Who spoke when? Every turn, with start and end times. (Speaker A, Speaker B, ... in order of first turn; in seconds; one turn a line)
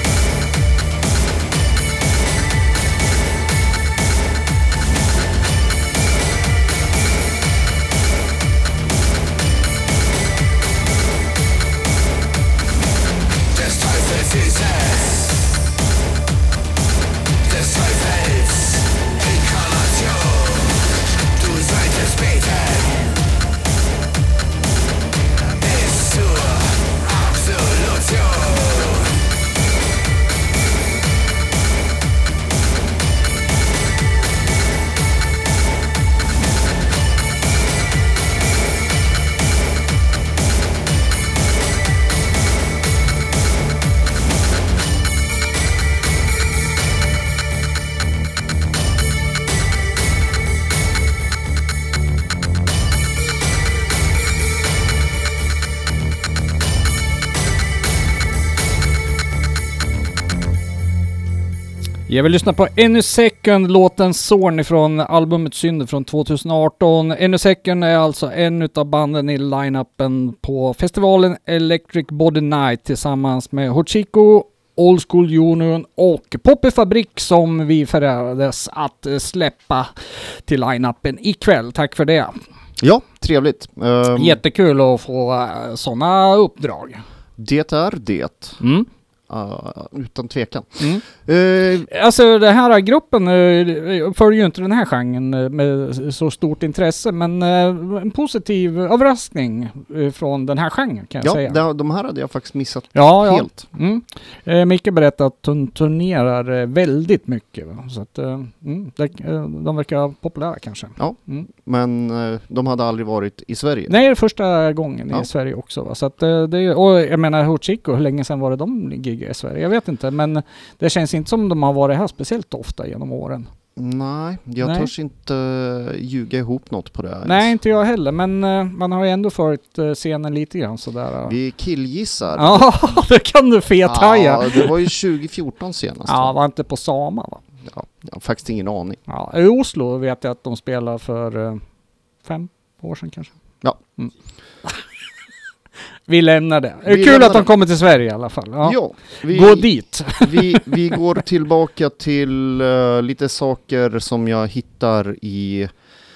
Speaker A: 62.1-82.4
Speaker B: 82.8-84.4
Speaker A: 84.2-87.0
Speaker B: 87.4-88.6
Speaker A: 88.6-88.9
Speaker B: 89.3-91.9
Speaker A: 91.9-101.6
Speaker B: 101.2-103.7
Speaker A: 102.9-111.5
Speaker B: 111.0-114.0
Speaker A: 113.9-123.5
Speaker B: 123.8-127.5
Speaker A: 124.6-124.9
Speaker A: 127.2-131.3
Speaker B: 131.2-133.0
Speaker A: 132.4-134.7
Speaker B: 133.8-136.3
Speaker A: 136.1-137.4
Speaker B: 137.7-139.0
Speaker A: 139.1-141.6
Speaker A: 142.2-143.3
Speaker A: 146.1-150.7
Speaker B: 146.9-147.5
Speaker B: 148.6-155.7